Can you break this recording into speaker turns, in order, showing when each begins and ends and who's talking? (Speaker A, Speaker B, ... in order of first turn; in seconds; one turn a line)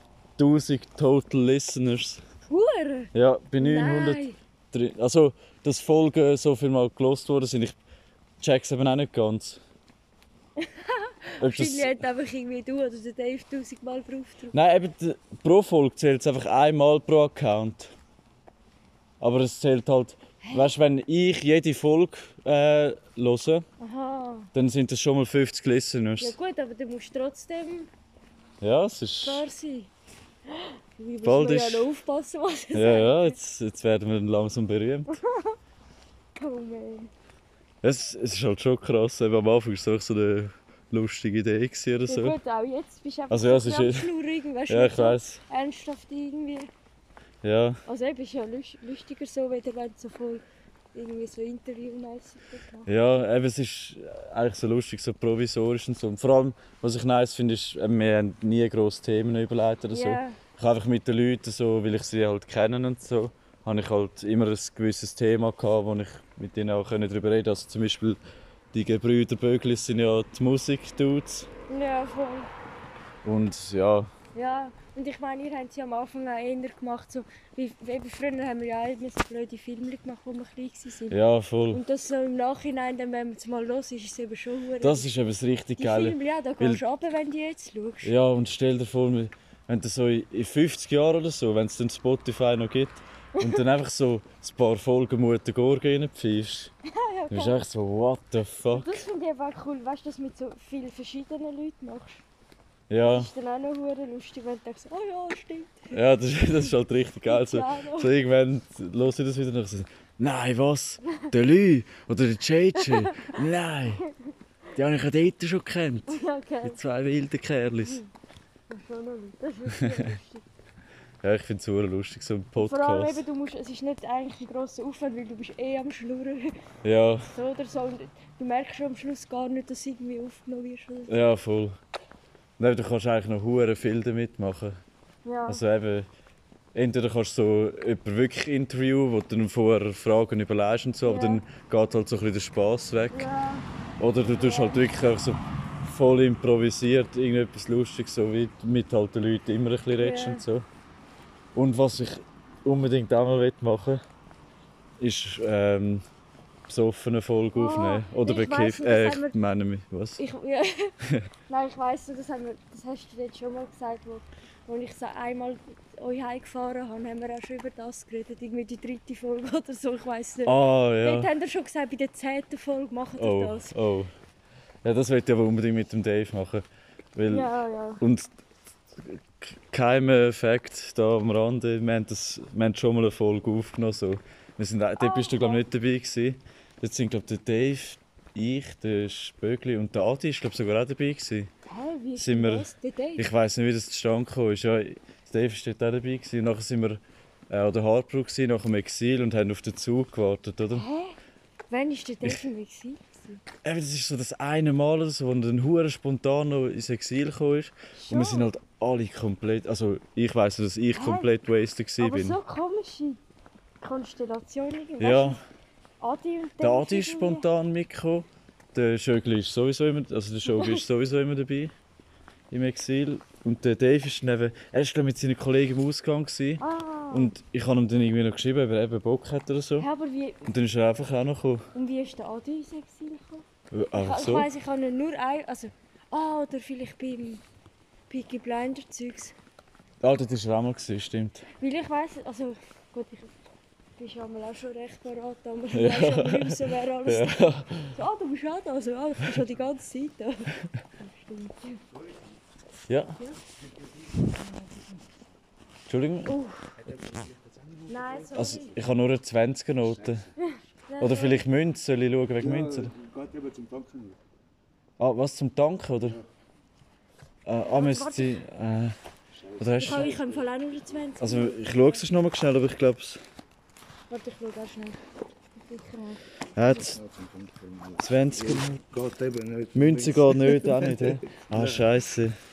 Speaker A: 0.4-2.2
Speaker B: 2.5-4.4
Speaker A: 3.1-7.8
Speaker A: 8.4-9.6
Speaker B: 10.6-14.5
Speaker A: 11.4-12.1
Speaker A: 14.5-17.9
Speaker A: 19.2-23.6
Speaker B: 20.4-20.7
Speaker B: 23.8-24.5
Speaker A: 24.5-26.3
Speaker B: 26.2-27.9
Speaker A: 28.6-29.5
Speaker B: 29.2-29.9
Speaker B: 30.5-33.4
Speaker A: 31.2-31.9
Speaker A: 32.7-35.2
Speaker B: 35.1-35.6
Speaker B: 36.3-37.1
Speaker A: 37.8-42.4
Speaker B: 42.0-46.7
Speaker A: 43.3-44.1
Speaker A: 44.7-45.4
Speaker A: 47.4-47.8
Speaker B: 47.9-52.9
Speaker A: 52.9-68.2
Speaker B: 59.9-60.4
Speaker A: 68.7-71.5
Speaker B: 71.7-72.5
Speaker A: 73.2-74.1
Speaker B: 74.3-81.2
Speaker A: 81.1-81.8
Speaker B: 81.7-85.1
Speaker A: 84.8-86.8
Speaker B: 85.8-88.1
Speaker A: 88.0-96.7
Speaker B: 93.4-93.6
Speaker B: 96.8-97.6
Speaker A: 97.3-99.0
Speaker B: 98.7-102.2
Speaker A: 102.9-103.3
Speaker B: 103.0-106.0
Speaker A: 105.9-114.0
Speaker B: 107.3-108.2
Speaker B: 112.7-113.4
Speaker B: 114.0-114.3
Speaker A: 114.7-118.0
Speaker B: 116.1-116.8
Speaker B: 117.8-118.1
Speaker B: 118.7-120.4
Speaker A: 119.7-120.2
Speaker A: 121.2-123.2
Speaker B: 122.5-126.6
Speaker A: 126.8-127.3
Speaker B: 127.3-131.3
Speaker A: 131.1-131.8
Speaker A: 132.6-134.8
Speaker B: 135.2-135.6
Speaker A: 135.5-136.1
Speaker A: 136.7-143.3
Speaker B: 141.0-141.4
Speaker B: 143.1-143.6
Speaker A: 144.0-150.7
Speaker B: 144.3-144.9
Speaker B: 150.0-150.4
Speaker A: 151.5-154.0
Speaker A: 155.0-156.0
Speaker A: 156.7-160.2
Speaker B: 157.5-159.4
Speaker B: 160.2-160.9
Speaker B: 161.5-173.7
Speaker A: 170.4-171.3
Speaker A: 173.2-174.1
Speaker A: 174.8-177.5
Speaker B: 177.3-178.0
Speaker A: 178.0-178.3
Speaker A: 179.0-191.5
Speaker B: 185.0-185.6
Speaker B: 191.7-193.3
Speaker A: 192.2-200.9
Speaker B: 200.7-201.2
Speaker B: 201.7-203.4
Speaker A: 203.6-212.4
Speaker B: 207.9-208.5
Speaker B: 210.9-211.3
Speaker B: 212.0-213.2
Speaker B: 213.8-215.4
Speaker A: 215.0-215.4
Speaker B: 216.0-217.4
Speaker A: 216.6-221.7
Speaker B: 220.5-220.8
Speaker A: 222.5-229.9
Speaker B: 226.6-227.3
Speaker B: 229.8-230.5
Speaker A: 230.4-231.7
Speaker B: 231.7-237.4
Speaker A: 233.7-234.5
Speaker B: 238.1-239.3
Speaker A: 240.0-241.5
Speaker B: 241.6-243.3
Speaker B: 244.0-251.8
Speaker A: 245.7-247.9
Speaker A: 252.9-253.2
Speaker A: 255.9-256.4
Speaker B: 256.2-256.8
Speaker C: 256.8-258.4
Speaker B: 257.9-258.8
Speaker A: 258.3-260.2
Speaker C: 259.8-260.3
Speaker B: 260.4-261.4
Speaker A: 261.0-262.9
Speaker C: 262.4-264.2
Speaker A: 265.0-266.2
Speaker A: 267.4-268.9
Speaker B: 267.6-268.4
Speaker C: 269.3-270.4
Speaker A: 269.6-270.1
Speaker B: 269.8-272.1
Speaker A: 271.2-273.2
Speaker B: 274.1-275.0
Speaker B: 275.5-276.2
Speaker A: 276.6-277.0
Speaker C: 276.7-281.9
Speaker A: 278.0-278.8
Speaker A: 279.7-282.3